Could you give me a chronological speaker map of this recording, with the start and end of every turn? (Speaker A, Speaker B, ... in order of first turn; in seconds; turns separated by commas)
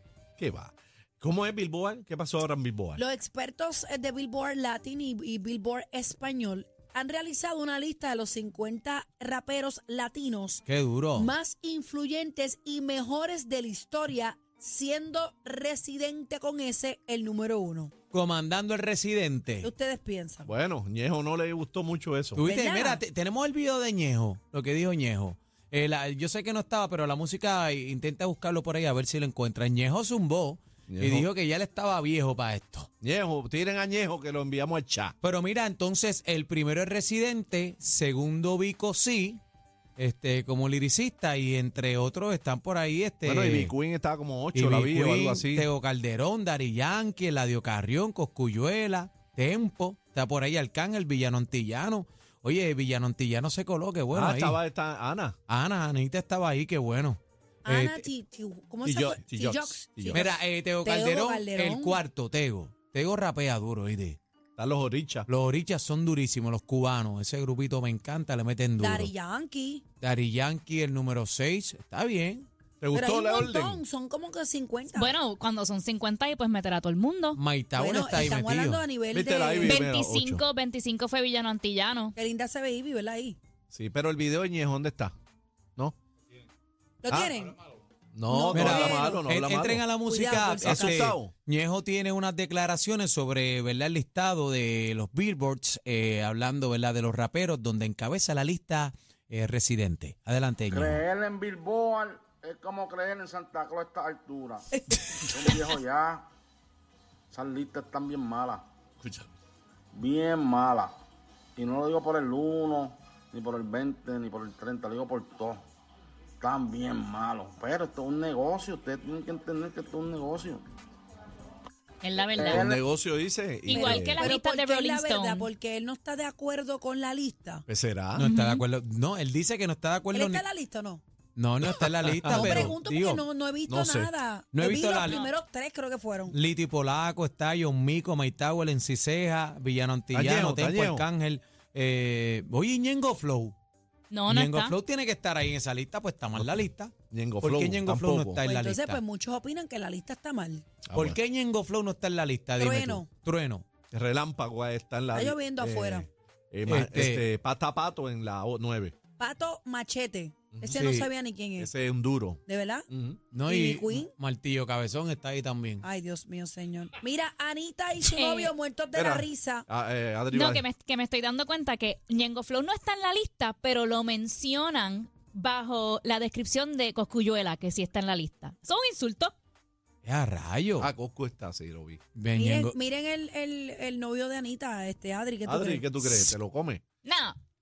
Speaker A: 0.4-3.0, Speaker B: 3.0-10.6, Speaker C: 10.7-11.3, Speaker B: 11.2-17.9, Speaker C: 18.1-19.7, Speaker B: 19.6-20.5, Speaker A: 20.4-22.4, Speaker C: 22.3-32.9, Speaker B: 22.4-23.0, Speaker A: 30.9-31.3, Speaker A: 33.0-35.1, Speaker C: 35.2-39.4, Speaker C: 40.0-43.7, Speaker A: 43.2-45.7, Speaker C: 44.5-54.6, Speaker A: 54.1-55.4, Speaker C: 55.5-58.1, Speaker B: 57.6-62.0, Speaker A: 58.8-60.2, Speaker C: 60.1-64.2, Speaker A: 64.5-65.3, Speaker C: 65.3-69.1, Speaker B: 68.8-69.8, Speaker C: 70.0-72.5, Speaker A: 72.8-73.8, Speaker B: 72.9-75.1, Speaker D: 74.9-77.4, Speaker C: 77.3-78.8, Speaker B: 77.8-79.8, Speaker A: 79.1-80.4, Speaker D: 79.6-82.1, Speaker B: 82.2-83.4, Speaker A: 83.7-85.1, Speaker B: 87.0-87.6, Speaker A: 87.1-87.4, Speaker A: 88.1-89.8, Speaker B: 88.3-89.2, Speaker C: 88.5-101.0, Speaker B: 90.1-91.1, Speaker A: 90.5-91.3, Speaker E: 100.7-104.7, Speaker B: 104.7-105.7, Speaker E: 105.3-106.2, Speaker E: 107.3-108.6, Speaker E: 109.9-111.0, Speaker E: 111.5-115.6, Speaker E: 116.4-120.6, Speaker D: 122.0-122.7, Speaker E: 122.3-122.8, Speaker A: 122.5-124.2, Speaker D: 123.7-125.5, Speaker B: 123.7-127.6, Speaker A: 127.7-128.2, Speaker C: 128.1-130.4, Speaker D: 128.2-128.6, Speaker B: 130.1-131.0, Speaker C: 131.3-133.2, Speaker A: 132.1-132.7, Speaker B: 132.3-136.3, Speaker A: 133.7-134.1, Speaker C: 134.5-135.2, Speaker D: 135.0-135.3, Speaker C: 136.3-143.5, Speaker A: 140.1-141.1, Speaker D: 144.1-144.7, Speaker C: 144.3-149.0, Speaker A: 147.1-148.4, Speaker B: 148.4-150.7, Speaker A: 150.8-151.2, Speaker C: 150.9-153.6, Speaker B: 152.6-153.1, Speaker A: 153.9-158.9, Speaker B: 155.1-156.1, Speaker C: 156.7-157.2, Speaker B: 159.2-161.7, Speaker A: 160.5-160.9, Speaker C: 160.7-161.1, Speaker A: 161.6-163.2, Speaker B: 162.4-162.9, Speaker C: 163.3-165.8, Speaker B: 163.5-164.1, Speaker B: 165.8-169.7, Speaker D: 168.1-168.5, Speaker A: 168.9-170.6, Speaker D: 170.3-179.3, Speaker C: 180.0-180.9, Speaker A: 180.8-182.0, Speaker C: 182.2-182.8, Speaker B: 182.3-185.9, Speaker A: 185.4-186.8, Speaker C: 186.0-186.3, Speaker D: 187.0-187.4